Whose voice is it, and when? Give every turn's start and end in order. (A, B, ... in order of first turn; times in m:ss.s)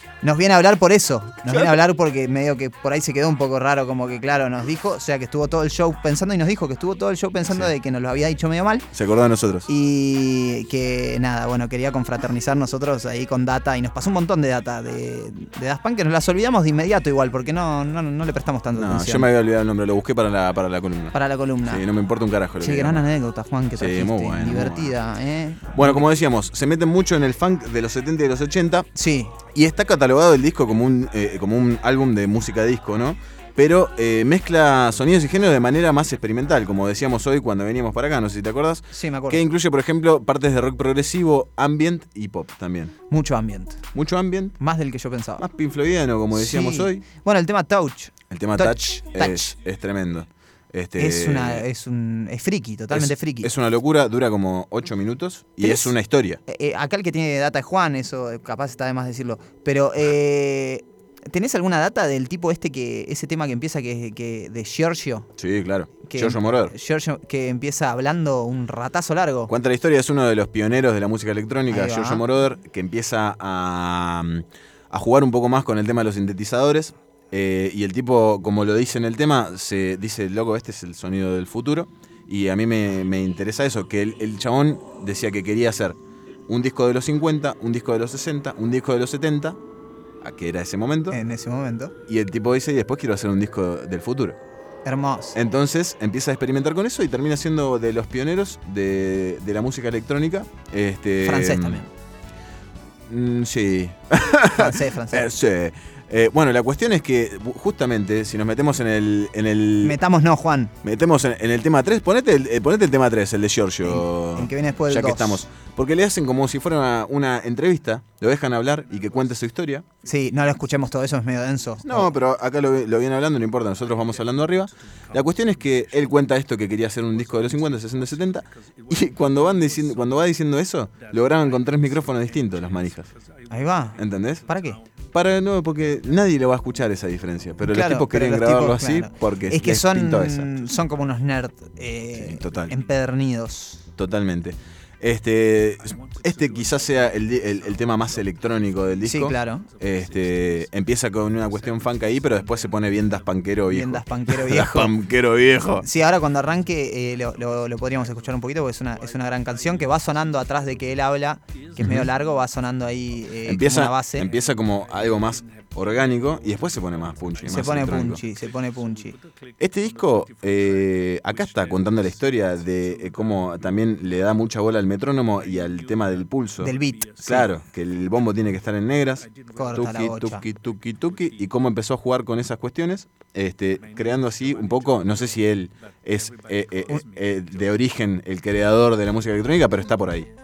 0:00.2-0:08.9 A
0:01.5-0:01.8 B
0:08.9-0:09.7 B
0:09.7-0:19.3 A
0:18.8-0:23.1 B
0:21.1-0:21.8 A
0:22.6-0:26.0 A
0:23.8-0:25.0 B
0:25.8-0:28.9 B
0:29.0-0:29.4 A
0:29.5-0:42.9 B
0:38.9-0:39.4 A
0:43.1-0:43.8 A
0:43.9-0:44.6 B
0:44.6-0:45.4 A
0:45.4-0:47.0 B
0:46.3-0:49.5 A
0:48.3-0:51.6 B
0:51.0-0:53.5 A
0:52.9-0:56.4 B
0:55.6-0:55.9 A
0:56.5-1:05.3 A
1:05.4-1:06.7 B
1:06.1-1:09.5 A
1:09.5-1:26.0 B
1:11.7-1:12.2 A
1:26.5-1:29.6 B
1:30.2-1:31.2 B
1:31.1-1:31.9 A
1:32.1-1:34.4 B
1:34.8-1:35.4 A
1:35.4-1:41.8 B
1:41.2-1:41.9 A
1:43.1-1:50.0 B
1:44.6-1:45.3 A
1:49.8-1:50.7 A
1:50.8-1:59.8 B
1:53.8-1:55.4 A
2:00.0-2:02.1 A
2:01.8-2:13.1 B
2:13.5-2:14.8 A
2:14.0-2:14.4 B
2:15.1-2:20.5 B
2:17.6-2:23.9 A
2:22.2-2:22.7 B
2:24.0-2:35.9 B
2:29.0-2:29.7 A
2:33.7-2:34.9 A
2:35.8-2:44.3 A
2:41.8-2:42.1 B
2:43.4-2:48.2 B
2:47.4-2:49.2 A
2:49.6-3:10.3 B
2:56.6-2:57.5 A
2:59.5-3:00.4 A